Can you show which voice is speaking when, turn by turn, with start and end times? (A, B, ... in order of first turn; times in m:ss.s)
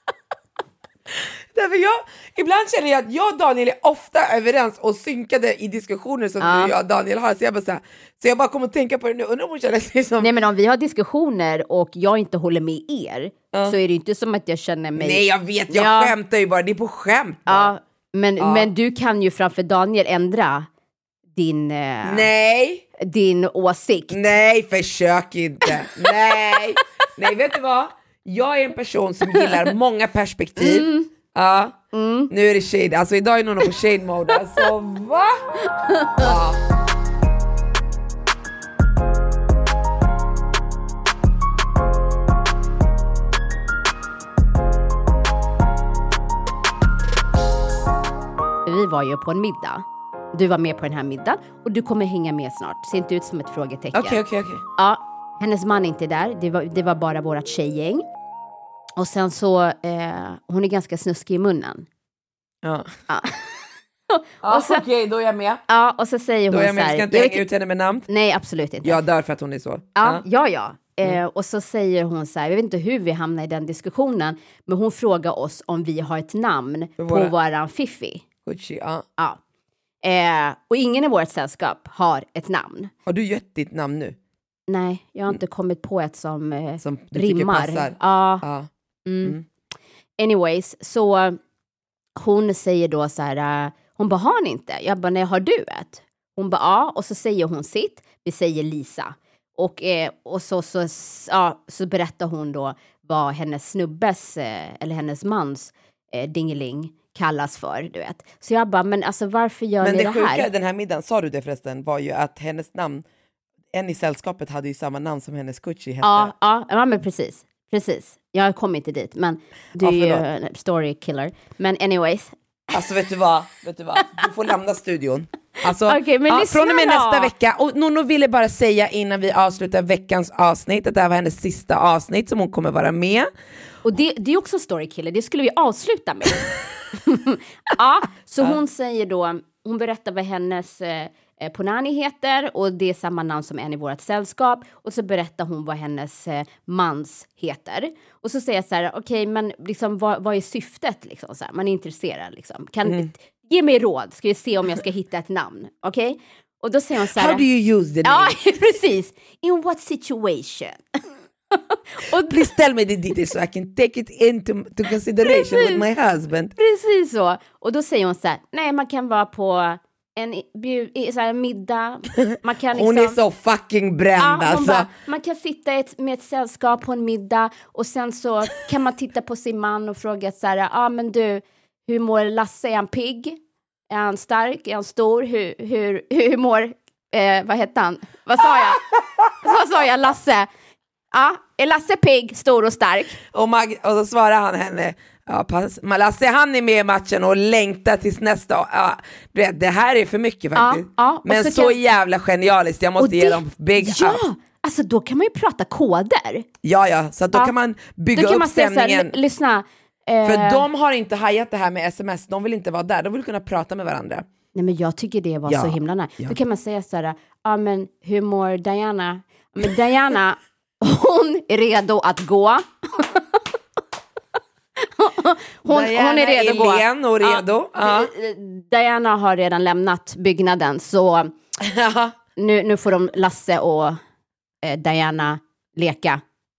0:01.1-0:10.3 A
0:06.4-0:06.7 B
0:10.2-0:16.1 B
0:13.5-0:13.8 A
0:15.0-0:17.7 A
0:17.4-0:20.7 B
0:18.4-0:18.7 A
0:21.4-0:22.3 B
0:22.0-0:22.9 A
0:23.0-0:24.3 B
0:24.1-0:31.8 A
0:30.6-0:31.1 B
0:31.9-0:32.3 B
0:32.3-0:35.4 A
0:35.8-0:36.3 B
0:36.2-0:36.6 A
0:48.7-0:54.2 B
0:53.9-0:54.6 A
0:54.8-0:58.1 B
0:59.0-1:01.9 B
1:02.6-1:02.9 A
1:03.1-1:03.5 B
1:04.1-1:04.8 B
1:04.4-1:05.6 A
1:05.7-1:07.4 B
1:06.5-1:08.1 A
1:08.1-1:09.0 B
1:08.8-1:10.2 A
1:10.0-1:18.2 B
1:17.0-1:17.3 A
1:18.4-1:19.1 A
1:20.0-1:22.9 B
1:23.1-1:24.2 A
1:24.7-1:28.4 B
1:26.8-1:28.7 A
1:29.1-1:29.4 B
1:30.2-1:31.4 B
1:32.2-1:50.5 B
1:49.8-1:53.0 A
1:53.7-1:56.3 A
1:56.0-2:02.3 B
1:59.8-2:00.2 A
2:02.7-2:13.3 A
2:05.6-2:07.3 B
2:13.8-2:16.4 B
2:17.0-2:37.4 B
2:37.0-2:38.4 A
2:38.0-2:42.5 B
2:42.2-2:46.5 A
2:45.3-2:45.8 B
2:46.6-2:53.2 B
2:52.2-2:54.9 A
2:54.2-3:03.4 B
3:03.9-3:08.8 B
3:09.4-3:10.5 B
3:11.1-3:13.2 B
3:13.3-3:24.2 A
3:20.6-3:21.8 B
3:23.0-3:26.4 B
3:26.6-3:29.2 A
3:28.1-3:30.7 B
3:30.2-3:34.3 A
3:34.6-3:43.4 B
3:35.5-3:36.4 A
3:44.8-3:51.4 B
3:45.7-3:48.1 A
3:51.6-3:52.1 A
3:52.4-3:54.0 B
3:54.6-3:56.2 B